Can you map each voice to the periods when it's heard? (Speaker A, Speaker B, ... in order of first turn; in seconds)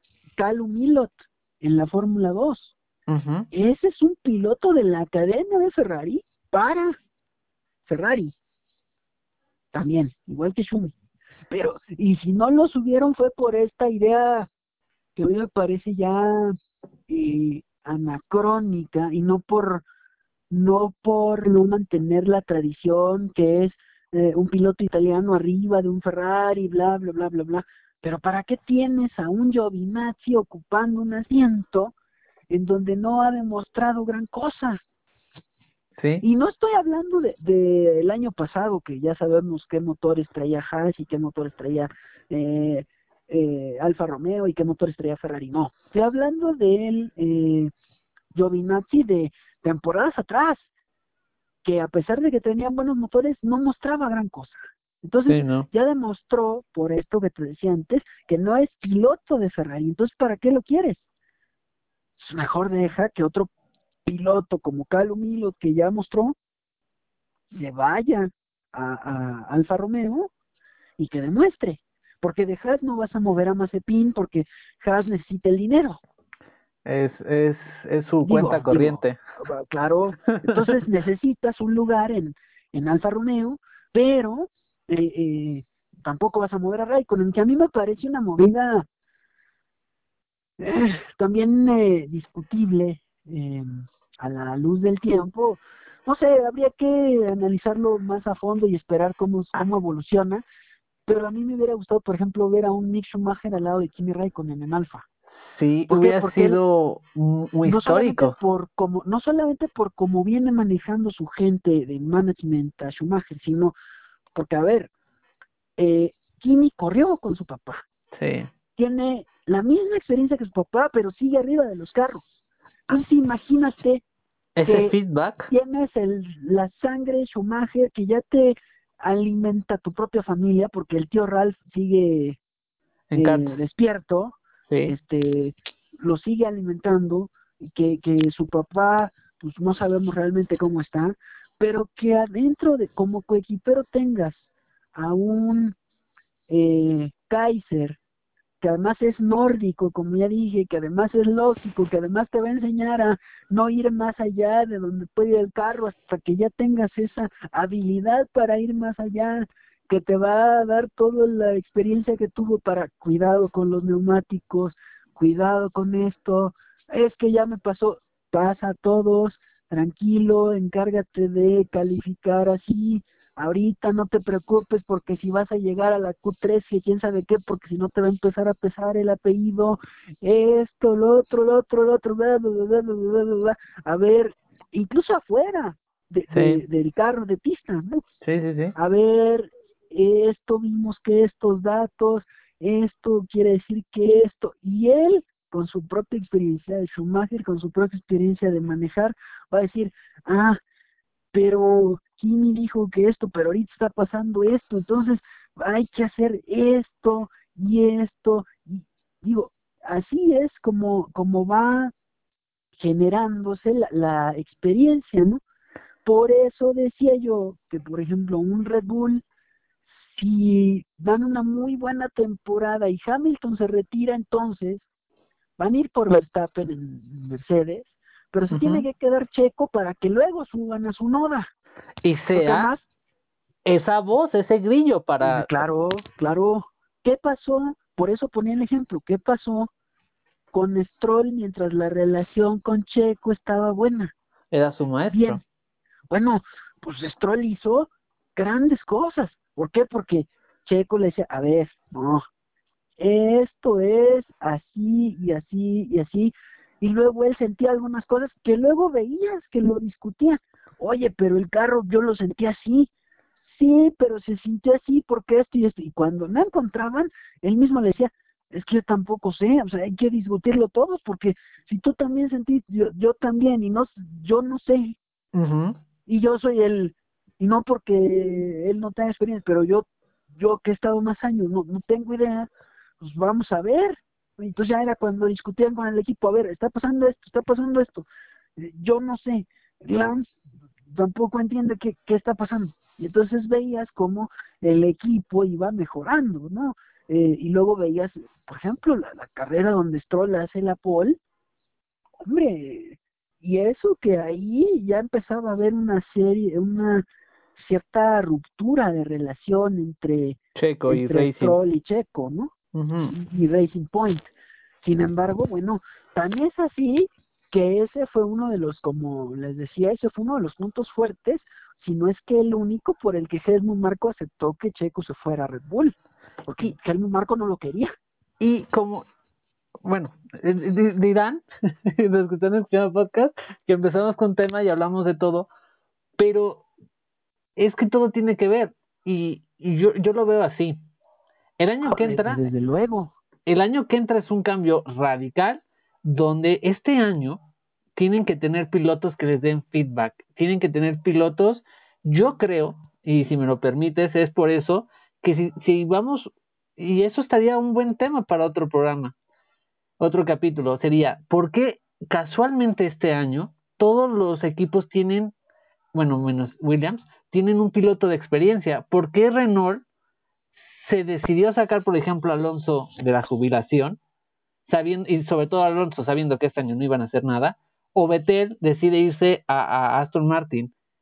Speaker A: 0.4-2.8, 3.5-7.0, 7.8-8.3, 9.7-10.9, 11.5-14.5, 15.2-16.6, 17.1-19.8, 20.5-31.9, 32.5-34.8, 36.2-47.7, 48.3-50.7, 51.6-61.1, 62.2-63.5, 64.0-66.3, 67.5-70.3, 71.0-76.0, 78.2-88.9, 90.6-100.4, 101.0-105.0, 105.9-106.6, 107.6-113.7, 114.3-114.9, 115.8-117.8, 118.8-122.2, 122.9-124.0, 124.7-125.0, 125.5-132.4, 133.1-134.3, 134.9-145.8, 146.5-148.0, 148.6-188.0, 188.8-200.6, 201.3-211.9, 212.7-215.4, 216.0-219.2, 219.8-224.9, 225.6-231.5, 232.3-232.9, 235.2-239.7, 240.5-244.1, 245.1-245.4, 246.1-252.2, 253.0-275.0, 276.1-290.2, 290.9-301.2, 302.2-307.0, 307.6-312.5, 313.1-314.3, 314.8-327.9, 341.8-343.1
Speaker B: 3.1-3.5, 36.0-36.2, 55.3-55.7, 76.8-79.2, 80.3-80.6, 105.3-108.4, 118.1-118.5, 124.5-125.5, 133.1-133.6, 134.7-134.9, 186.3-186.6, 188.2-188.7, 228.5-228.8, 232.0-232.7, 233.6-235.5, 244.5-245.4, 275.3-275.8, 310.6-311.6, 312.7-313.1, 328.4-329.1, 329.8-335.5, 336.2-336.6, 337.6-340.8, 341.6-342.4, 343.4-347.4, 347.9-359.1, 360.0-365.3, 365.9-369.8, 370.5-374.0, 374.6-380.7